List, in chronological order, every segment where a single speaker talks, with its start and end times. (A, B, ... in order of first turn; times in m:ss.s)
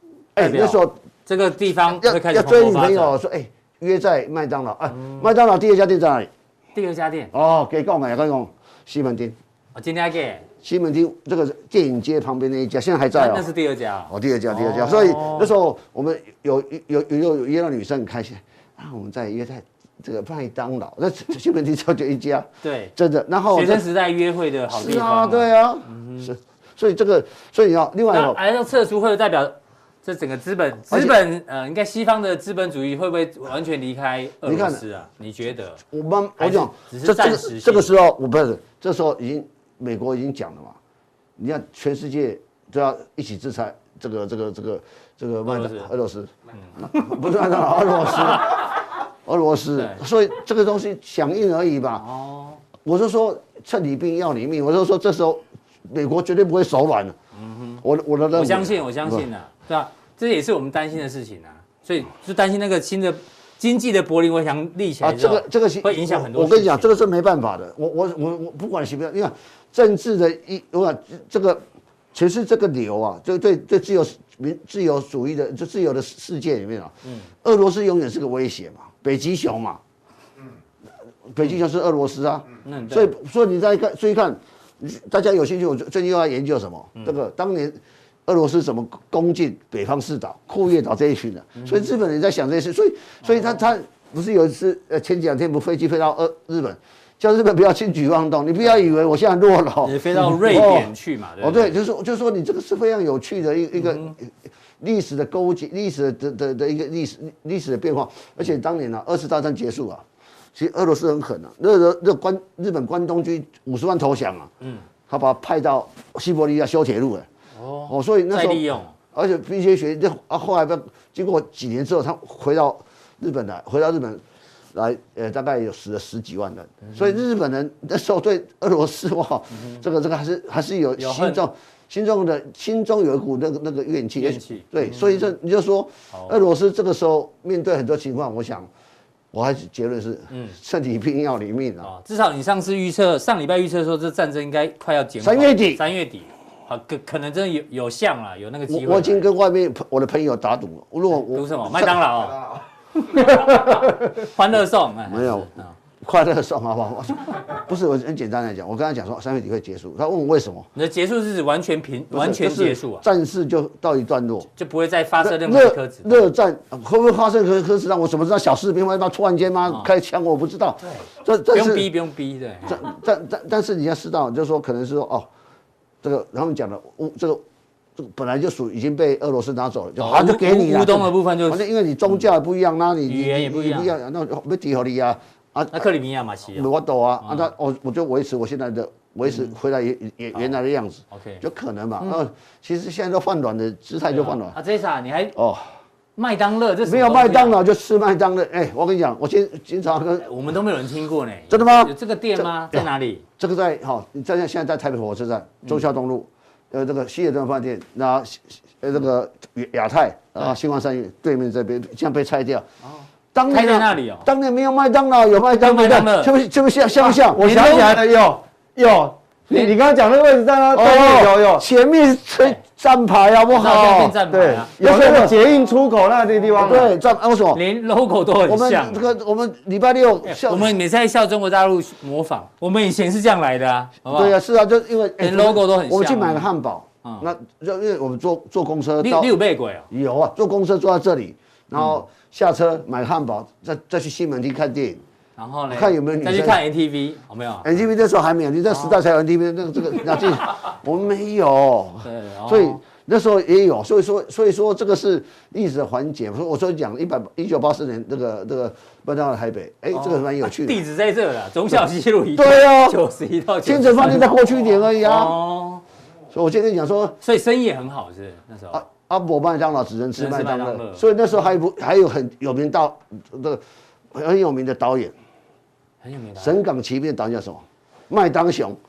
0:00.4-0:01.0 A
0:00.4-0:03.1 B
0:01.9-0:06.3 A
0:04.9-0:05.3 B
0:06.7-0:07.3 B
0:07.3-0:09.4 A
0:09.7-0:10.4 B
0:10.6-0:13.5 A
0:13.1-0:15.5 B
0:14.1-0:23.8 A
0:22.6-0:22.9 B
0:23.5-0:26.3 B
0:24.7-0:28.4 A
0:28.1-0:35.8 B
0:30.9-0:31.2 A
0:34.4-0:34.8 A
0:35.9-0:40.8 A
0:36.4-0:37.9 B
0:41.4-0:52.0 A
0:45.5-0:45.9 B
0:46.7-0:47.1 B
0:49.8-0:50.0 B
0:52.0-0:52.6 B
0:52.8-0:57.2 A
0:57.4-0:57.8 B
0:57.8-0:59.2 A
0:58.3-1:06.9 B
1:05.0-1:11.6 A
1:12.1-1:19.8 A
1:21.3-1:50.0 A
1:22.6-1:23.1 B
1:31.6-1:31.9 B
1:33.2-1:33.6 B
1:39.8-1:41.7 B
1:43.8-1:44.1 B
1:50.6-1:54.5 A
1:55.1-1:57.3 A
1:57.6-1:58.9 B
1:57.9-2:04.2 A
2:04.7-2:18.7 A
2:06.9-2:07.2 B
2:09.5-2:09.8 B
2:11.0-2:11.4 B
2:14.2-2:15.3 B
2:19.3-2:21.9 A
2:20.3-2:20.6 B
2:21.8-2:29.3 B
2:25.2-2:25.8 A
2:28.7-2:32.6 A
2:31.3-2:35.7 B
2:33.2-2:34.3 A
2:35.1-2:35.5 A
2:36.0-2:40.7 A
2:40.7-2:43.1 B
2:42.1-2:44.5 A
2:44.6-2:46.2 B
2:45.2-2:51.9 A
2:50.8-2:52.8 B
2:52.7-2:55.3 A
2:56.0-2:57.4 A
2:58.0-3:05.9 A
3:00.0-3:02.2 B
3:03.1-3:03.9 B
3:05.7-3:06.7 B
3:06.6-3:14.6 A
3:07.2-3:07.5 B
3:09.3-3:09.5 B
3:11.1-3:11.4 B
3:14.1-3:15.4 B
3:15.4-3:15.7 A
3:16.2-3:17.6 B
3:16.8-3:20.3 A
3:20.2-3:23.2 B
3:21.5-3:22.9 A
3:23.4-3:32.7 A
3:32.8-3:34.3 B
3:33.3-3:37.6 A
3:35.6-3:36.3 B
3:37.1-3:41.6 C
3:37.4-3:38.0 B
3:40.7-3:44.2 A
3:43.5-3:44.8 B
3:44.3-3:46.9 C
3:44.8-3:45.4 A
3:46.6-3:47.6 A
3:47.5-3:49.1 B
3:48.5-3:50.8 A
3:50.2-3:54.4 B
3:54.1-3:59.3 A
3:55.2-3:56.5 B
3:59.0-3:59.9 B
3:59.9-4:05.0 A
4:05.4-4:07.8 B
4:05.7-4:06.6 A
4:07.6-4:20.8 A
4:08.7-4:09.0 B
4:12.0-4:12.8 B
4:19.9-4:25.8 B
4:22.4-4:23.0 A
4:23.6-4:25.4 A
4:26.3-4:27.2 A
4:27.2-4:28.8 B
4:28.7-4:33.6 A
4:30.2-4:31.1 B
4:34.1-4:35.1 A
4:36.0-4:36.6 B
4:36.4-4:38.8 A